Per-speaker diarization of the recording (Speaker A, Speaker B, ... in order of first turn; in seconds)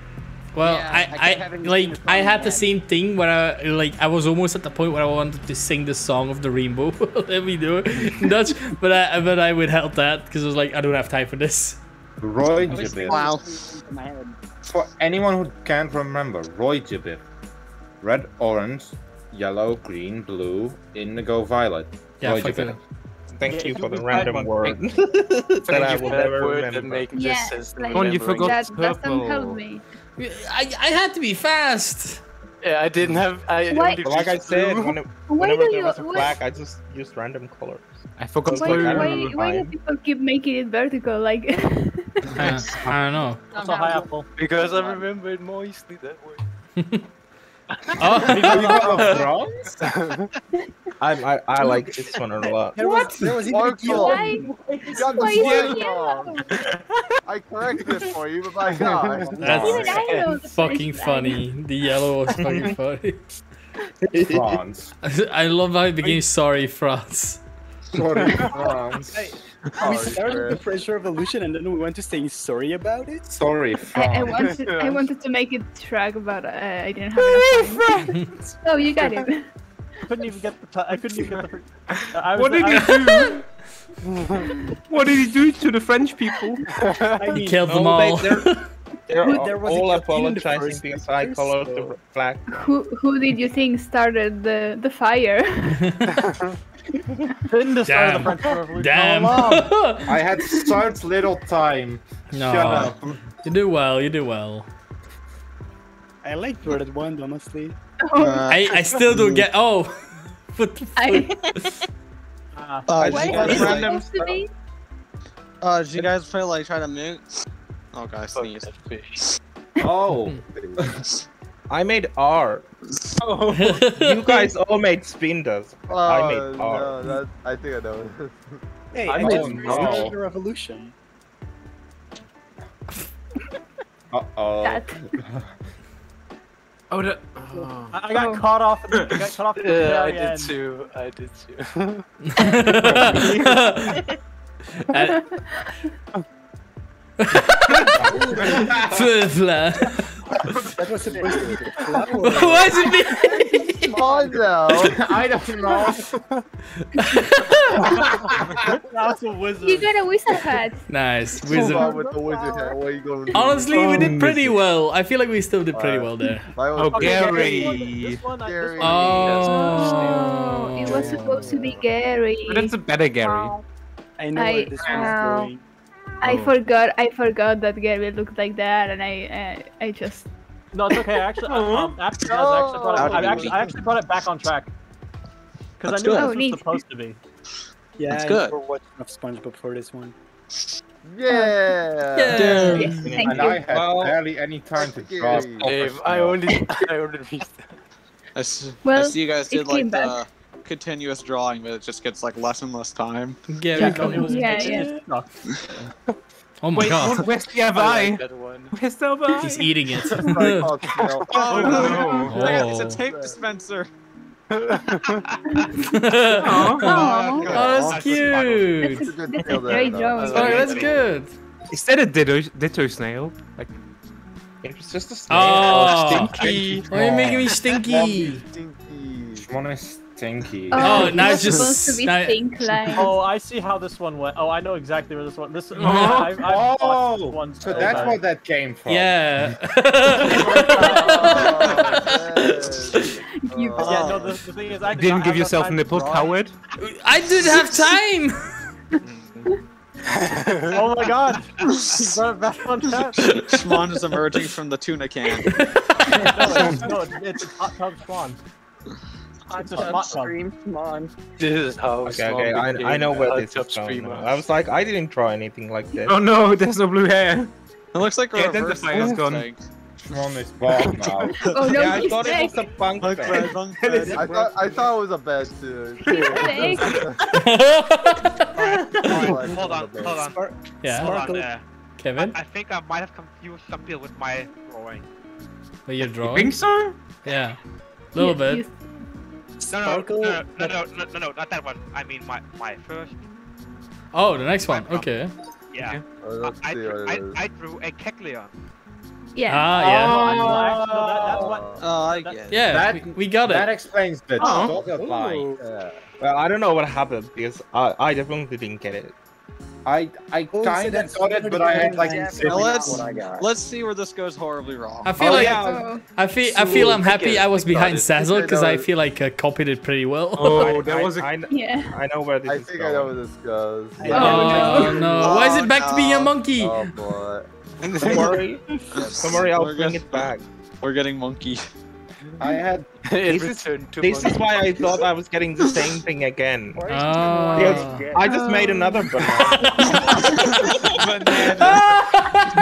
Speaker A: 0.5-11.8, 22.2-22.8, 30.2-32.2, 42.4-43.4, 46.8-47.0, 48.0-49.3, 59.4-63.2, 65.0-67.4, 87.3-88.7, 95.8-96.1, 97.8-100.2, 102.3-104.7, 108.5-111.7, 123.5-124.5, 142.3-144.0, 144.9-145.3, 147.2-147.9, 148.6-150.2, 152.3-153.9, 156.9-158.0, 160.9-161.9, 163.3-166.5, 168.8-171.5, 192.1-193.0, 203.5-204.8, 206.6-207.3, 209.3-210.7, 212.2-213.0, 215.9-219.1, 220.2-221.3, 225.3-228.4, 230.8-232.4, 238.9-243.0, 246.8-248.5, 255.7-256.1, 277.3-278.4, 280.8-281.2, 282.0-282.4, 285.9-286.7, 287.2-288.6, 294.1-295.3, 299.5-300.2, 302.5-303.7, 315.0-320.8, 324.1-326.8, 336.9-338.1, 341.6-342.4
Speaker B: 0.6-2.7, 12.6-14.4, 42.4-42.9, 43.5-45.1, 153.2-154.4, 161.5-162.8, 173.2-173.6, 259.4-261.1, 311.7-313.5, 336.8-338.3
Speaker C: 12.2-13.3, 14.7-17.2, 18.0-22.8, 48.4-49.9, 59.4-60.0, 64.1-64.9, 67.9-69.3, 70.0-70.5, 73.3-74.6, 100.1-103.2, 119.8-121.0, 129.2-130.1, 134.1-135.5, 147.9-149.1, 154.7-156.1, 158.0-158.7, 174.8-175.5, 193.1-196.5, 226.9-227.5, 229.3-231.2, 235.8-239.5, 270.0-271.4, 299.8-301.6, 302.7-305.5, 309.8-313.1, 315.2-315.6, 324.1-324.9, 332.4-332.9
Speaker D: 13.1-13.4, 108.2-109.5, 112.9-114.0, 115.6-117.2, 117.9-118.7, 182.9-183.7, 186.0-186.3, 188.1-188.5, 198.3-203.4, 211.3-213.9, 217.4-218.1, 243.8-244.4, 251.6-252.1, 253.2-255.6, 267.9-269.6, 271.4-272.4, 273.0-274.2, 301.8-302.5, 304.4-304.7, 312.4-315.2, 325.2-326.4, 328.0-328.4, 328.9-331.6, 341.2-341.8
Speaker E: 23.4-27.1, 34.0-39.7, 51.0-52.8, 87.6-88.5, 89.1-92.6, 113.0-114.4, 121.7-122.7, 123.9-127.0, 129.3-129.8, 192.5-194.2, 224.6-226.8, 262.0-266.2, 271.6-273.6, 306.2-309.1, 315.2-315.8, 320.5-323.2, 327.9-330.4, 333.2-336.9, 337.6-341.7
Speaker F: 23.7-24.4, 43.6-44.3, 80.1-83.0, 97.5-99.8, 112.5-112.9, 137.9-140.6, 142.8-143.6, 158.7-159.9, 166.8-169.7, 180.7-184.7, 185.8-187.2, 203.7-205.3, 232.9-238.2, 240.3-242.0, 243.8-246.4, 250.7-253.4, 256.2-258.4, 259.6-260.4, 299.9-302.4
Speaker G: 24.2-24.7, 27.9-29.6, 38.2-39.3, 55.4-55.8, 77.3-78.1, 82.3-83.6, 84.8-86.7, 123.2-123.8, 136.9-138.2, 138.9-139.2, 142.8-143.6, 148.3-148.6, 163.7-164.5, 166.7-168.3, 172.4-173.6, 176.2-176.5, 181.3-182.0, 185.9-186.3, 203.8-204.2, 206.7-209.8, 211.3-212.4, 216.3-217.1, 221.7-223.7, 225.9-226.8, 235.7-236.6, 244.8-246.5, 266.0-267.5, 268.3-269.5, 273.7-274.9, 286.2-287.0, 320.4-321.3
Speaker H: 25.6-28.5, 32.6-35.0, 44.4-46.4, 50.0-50.3, 86.9-87.1, 118.3-119.3, 129.3-130.0, 139.6-142.0, 195.6-197.8, 207.2-208.7, 214.7-215.1, 261.4-264.3, 316.7-317.8, 327.9-328.4, 333.1-334.6
Speaker I: 27.1-29.8, 33.7-34.1, 35.2-36.4, 38.5-42.3, 52.8-53.3, 53.8-56.7, 59.5-61.5, 73.9-79.5, 89.2-89.6, 92.5-95.8, 108.0-108.5, 111.0-111.5, 113.0-114.5, 134.6-135.0, 138.1-138.5, 145.0-145.7, 159.6-160.8, 169.4-172.7, 174.3-175.5, 176.2-180.3, 186.1-186.8, 191.3-191.6, 192.4-193.7, 198.8-200.2, 204.2-204.9, 210.2-210.5, 211.7-212.4, 215.5-215.8, 216.7-217.6, 218.8-220.8, 230.7-233.2, 243.2-244.2, 271.5-272.8, 276.0-277.1, 288.1-288.8, 299.3-300.1, 315.5-316.0, 321.5-321.9, 324.1-325.0, 338.2-339.1, 339.8-340.5
Speaker J: 52.8-54.5, 69.1-73.4, 87.2-87.6, 89.2-92.0, 106.2-107.7, 128.9-130.9, 150.7-152.8, 174.2-175.6, 188.0-190.1, 280.4-281.5, 289.6-290.9, 304.4-305.6, 310.5-313.0, 324.0-325.6, 336.9-338.1
Speaker K: 53.4-56.3, 57.2-60.0, 69.8-70.6, 125.9-128.6, 129.6-130.0, 151.0-152.6, 153.9-155.0, 161.5-164.1, 165.7-169.7, 170.8-171.8, 182.3-183.7, 191.0-192.6, 194.8-195.7, 210.2-213.4, 218.8-220.8, 227.8-229.4, 237.6-238.2, 240.3-244.4, 274.1-277.2, 278.5-280.4, 296.2-297.4, 300.6-301.9, 305.6-306.0, 317.7-318.9, 322.4-324.9, 326.6-327.5, 328.9-329.5
Speaker L: 215.0-215.7, 216.8-218.8, 219.7-221.1, 249.0-249.5, 278.6-281.6, 282.1-285.1, 289.7-293.2, 294.7-295.1, 295.7-298.5